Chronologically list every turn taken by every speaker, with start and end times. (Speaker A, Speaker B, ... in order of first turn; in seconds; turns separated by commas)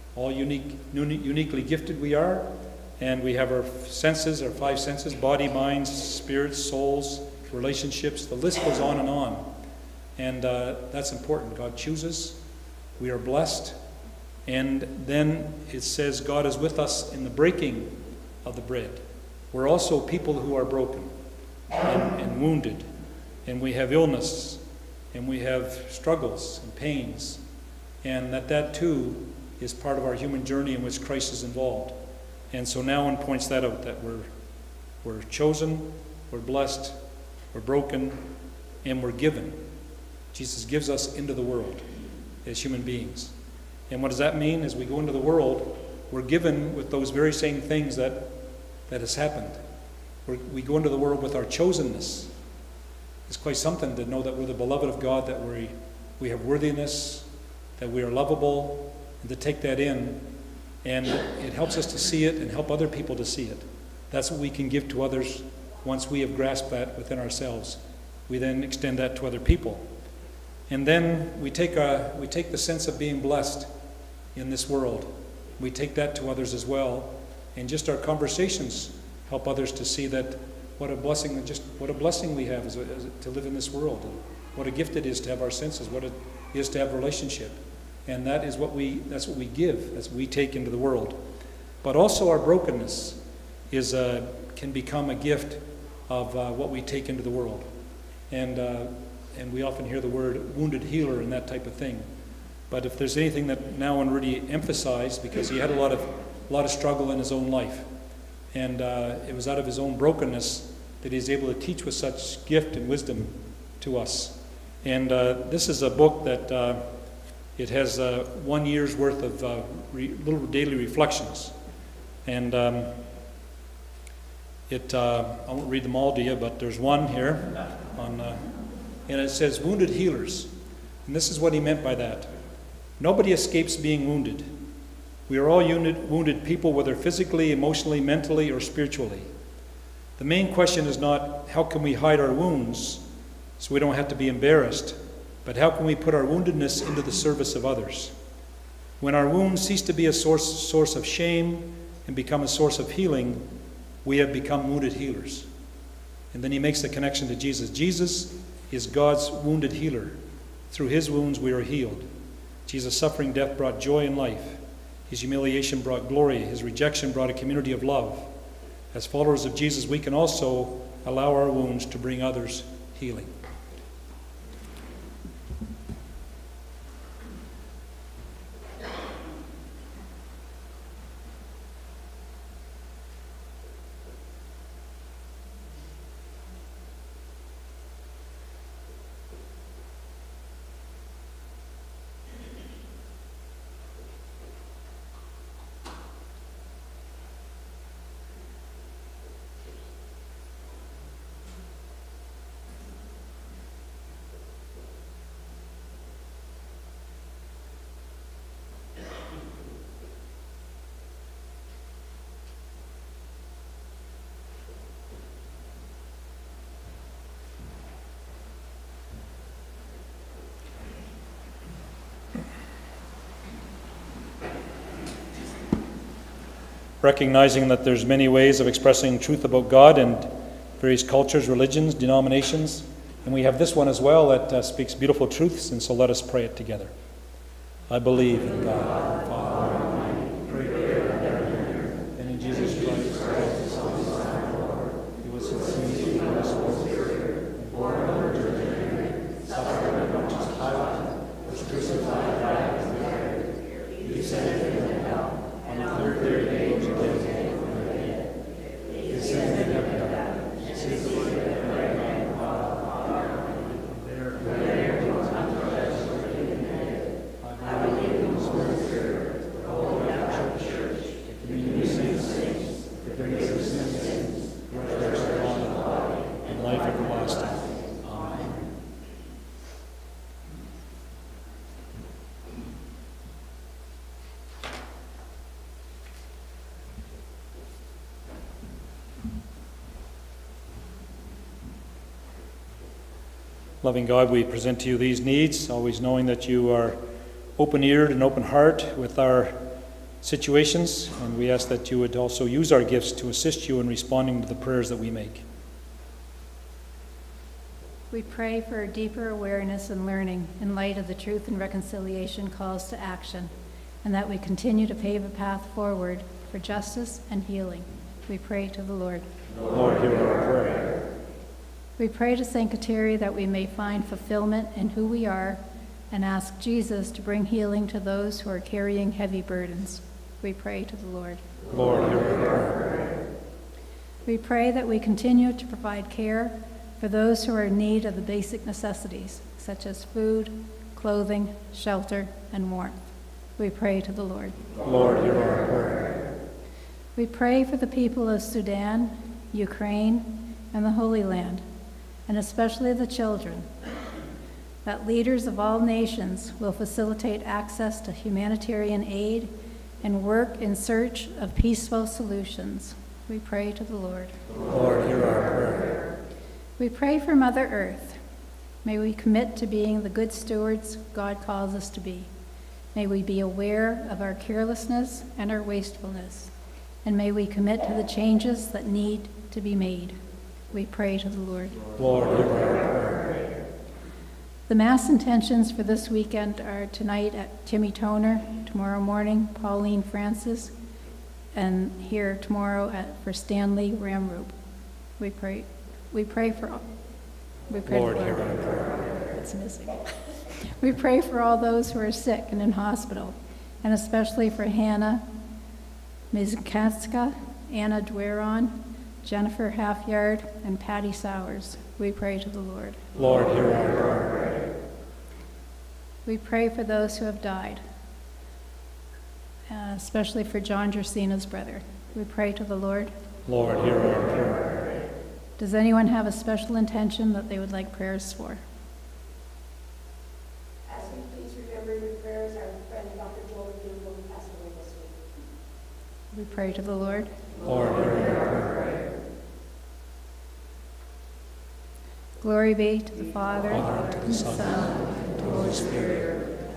Speaker A: 0.1-9.5, Speaker A: 10.2-12.4, Speaker A: 13.0-13.8, Speaker A: 14.5-21.1, Speaker A: 21.8-22.9, Speaker A: 23.5-24.6, Speaker A: 25.1-27.4, Speaker A: 28.0-32.0, Speaker A: 32.5-34.3, Speaker A: 35.0-37.0, Speaker A: 37.5-38.2, Speaker A: 38.8-39.6, Speaker A: 40.3-41.8, Speaker A: 42.4-43.3, Speaker A: 43.9-49.6, Speaker A: 50.2-52.3, Speaker A: 53.3-60.2, Speaker A: 60.8-69.9, Speaker A: 70.7-73.7, Speaker A: 74.3-91.2, Speaker A: 91.8-93.2, Speaker A: 93.7-97.7, Speaker A: 98.3-102.1, Speaker A: 102.7-107.9, Speaker A: 108.5-116.9, Speaker A: 117.6-121.5, Speaker A: 122.2-123.0, Speaker A: 124.7-128.4, Speaker A: 129.1-130.5, Speaker A: 131.1-132.3, Speaker A: 133.0-134.5, Speaker A: 135.3-139.3, Speaker A: 140.2-143.0, Speaker A: 143.6-148.1, Speaker A: 149.0-153.4, Speaker A: 154.0-155.5, Speaker A: 156.3-160.2, Speaker A: 160.7-162.1, Speaker A: 162.7-168.3, Speaker A: 168.9-173.3, Speaker A: 227.0-236.9, Speaker A: 237.9-241.4, Speaker A: 242.2-244.4, Speaker A: 245.2-253.0, Speaker A: 254.0-254.8, Speaker A: 255.7-258.0, Speaker A: 259.1-262.8, Speaker A: 263.7-266.2, Speaker A: 267.4-269.1, Speaker A: 269.6-275.9, Speaker A: 276.5-278.6, Speaker A: 293.8-297.0, Speaker A: 297.6-299.6, Speaker A: 300.2-305.4, Speaker B: 308.1-313.5, Speaker B: 314.0-319.3, Speaker A: 319.7-320.9, Speaker B: 322.0-331.4, Speaker A: 331.7-332.9, Speaker B: 334.3-343.0, Speaker B: 343.6-344.6, Speaker A: 344.8-346.1, Speaker B: 347.2-351.6, Speaker B: 352.3-353.7, Speaker B: 354.9-364.4, Speaker A: 364.7-366.0, Speaker B: 366.8-368.2, Speaker B: 368.8-372.3, Speaker B: 372.9-376.5, Speaker B: 377.1-380.2, Speaker B: 380.7-381.8, Speaker A: 382.0-383.3, Speaker B: 384.7-390.7, Speaker B: 391.5-394.5, Speaker B: 395.2-396.8, Speaker B: 397.7-398.5, Speaker A: 397.9-399.0, Speaker B: 399.3-405.2, Speaker B: 406.3-413.0, Speaker A: 413.1-414.4, Speaker B: 416.3-417.8, Speaker B: 419.7-423.1, Speaker A: 423.5-424.8, Speaker B: 425.6-428.6, Speaker C: 430.9-435.2, Speaker B: 436.3-437.3, Speaker A: 437.6-438.8, Speaker B: 442.4-444.9, Speaker A: 443.7-446.3